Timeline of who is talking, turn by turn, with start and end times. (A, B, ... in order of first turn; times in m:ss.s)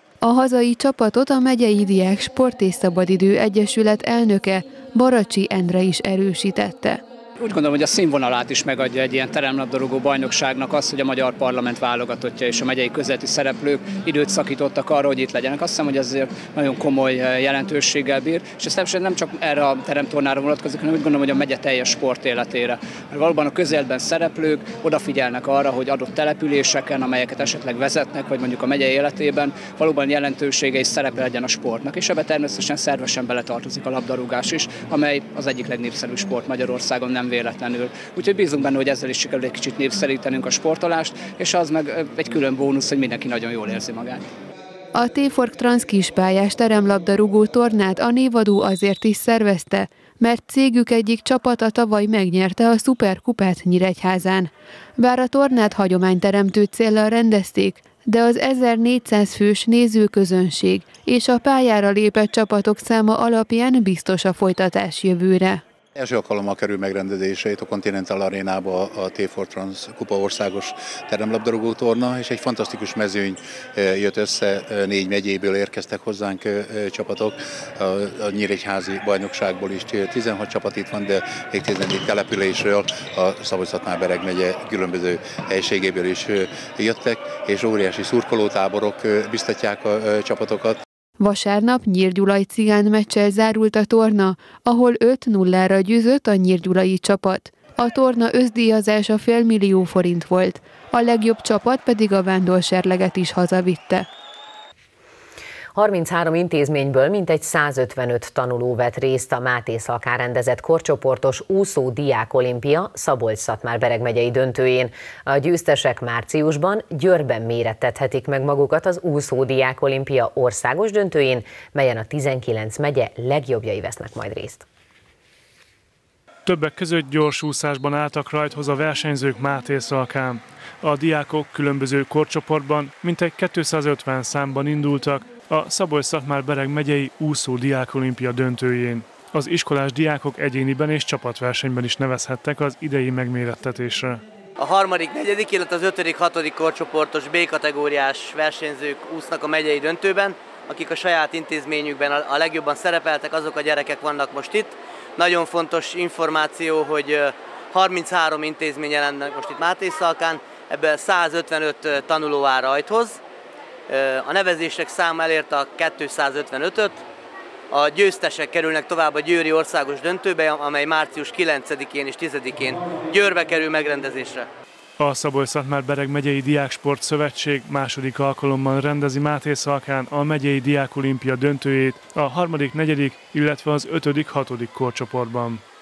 0:00.2-0:07.0 A
0:07.4-0:44.3 B
0:44.9-1:05.6 A
1:06.0-1:30.8 C
1:31.2-1:44.1 A
1:45.8-2:04.7 D
2:06.4-2:24.2 E
2:24.6-2:43.2 F
2:43.9-2:47.0 F
2:47.7-2:54.5 F
2:55.0-3:05.6 E